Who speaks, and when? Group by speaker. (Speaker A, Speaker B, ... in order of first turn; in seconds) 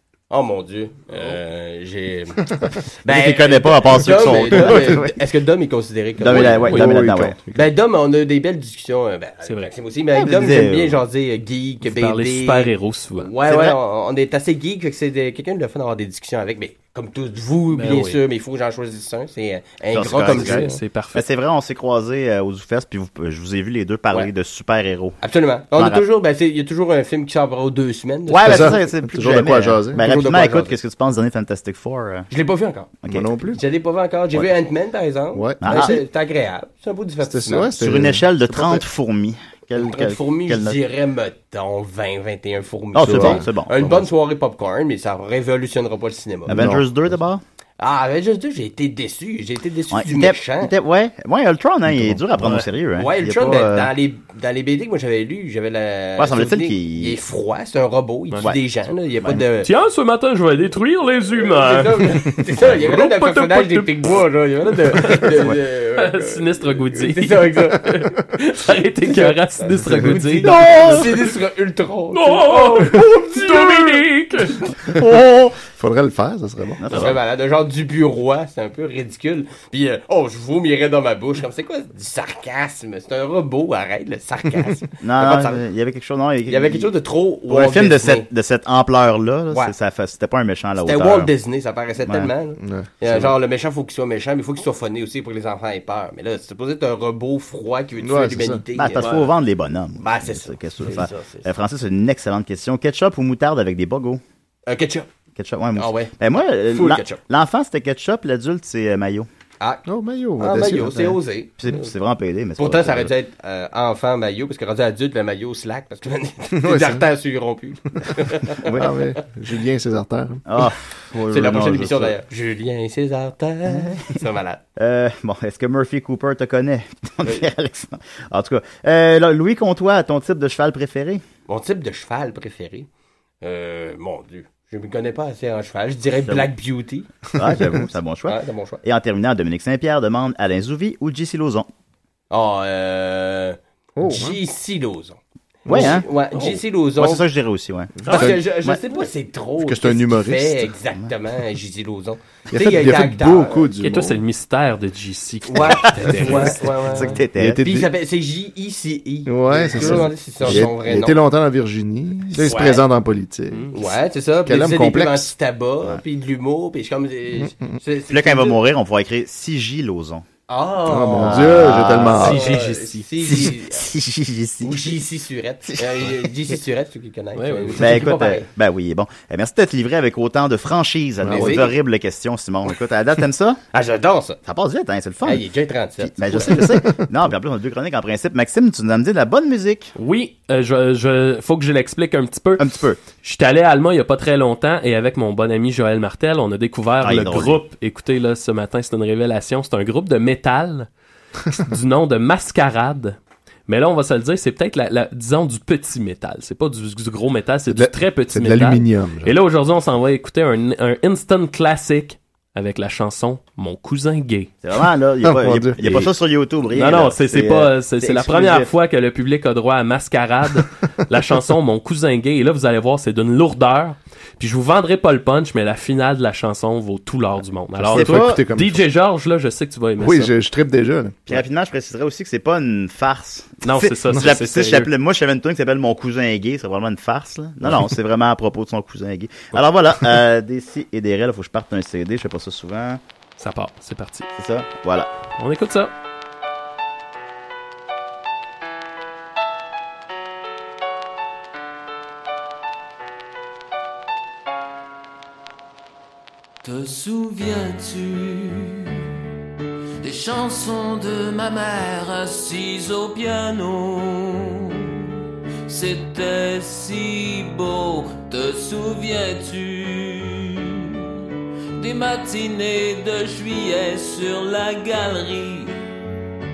Speaker A: 0.3-6.9, 7.5-20.8, 25.2-28.8, 30.0-30.8, 32.3-37.7, 39.8-46.6, 47.8-50.7, 53.0-59.7, 61.4-68.0, 69.0-73.9, 76.9-85.6, 86.5-88.3, 90.8-99.2, 100.0-101.5, 104.7-105.1, 105.8-106.1, 106.7-107.2, 110.4-111.9, 112.6-118.9, 121.3-124.6, 131.5-132.9, 133.4-137.1, 138.3-138.8, 142.3-147.2, 148.1-153.7, 155.5-161.2, 162.4-162.8, 163.7-168.6, 170.5-173.8, 174.6-178.5, 181.3-181.8, 183.7-184.4, 185.2-186.6
Speaker B: 3.0-5.2, 6.2-7.4, 10.2-11.0, 13.4-13.8, 19.9-25.2, 25.8-26.0, 28.3-32.3, 35.6-36.0, 37.8-40.8, 42.9-44.1, 46.5-47.4, 49.9-53.9, 56.2-57.2, 70.5-70.9, 76.8-77.2, 85.0-86.9, 87.5-91.3, 92.0-92.3, 98.7-104.2, 105.4-109.3, 111.6-113.1, 118.6-118.9, 120.5-122.2, 123.7-124.1, 124.8-131.2, 136.2-136.5, 137.3-141.7, 145.7-148.8, 155.7-157.7, 168.1-170.2, 171.2-172.3, 173.2-174.9, 175.8-176.1, 177.8-183.6, 184.4-185.4, 186.0-189.9, 192.6-193.0, 197.0-197.6, 214.6-218.7, 227.9-228.4, 231.3-243.0, 244.4-245.1
Speaker C: 6.5-7.7, 28.4-30.0, 33.1-33.6, 35.3-36.0, 37.2-38.8, 43.0-43.4, 46.5-47.1, 51.9-52.2, 70.4-71.1, 74.9-76.9, 92.6-92.9, 98.0-98.6, 109.8-111.2, 116.5-117.0, 118.7-120.4, 143.9-144.4, 145.7-146.0, 148.0-148.4, 149.6-150.7, 152.5-154.2, 157.3-157.9, 159.2-163.7, 164.4-165.3, 167.3-167.8, 170.9-172.5, 181.2-181.7, 186.4-187.1, 207.7-209.3, 215.2-216.1, 227.8-228.8, 230.0-231.4
Speaker D: 9.4-9.7, 11.8-13.3, 17.7-18.2, 20.3-21.2, 59.6-64.2, 64.9-70.6, 72.1-74.9, 153.8-156.8, 163.5-163.8, 172.1-173.1, 177.4-178.1, 189.9-192.7, 193.2-200.9, 201.5-214.5, 216.7-230.3, 233.6-234.9, 243.4-244.3, 245.4-245.9
Speaker E: 256.6-259.0, 260.0-265.1, 265.7-271.1, 271.8-275.8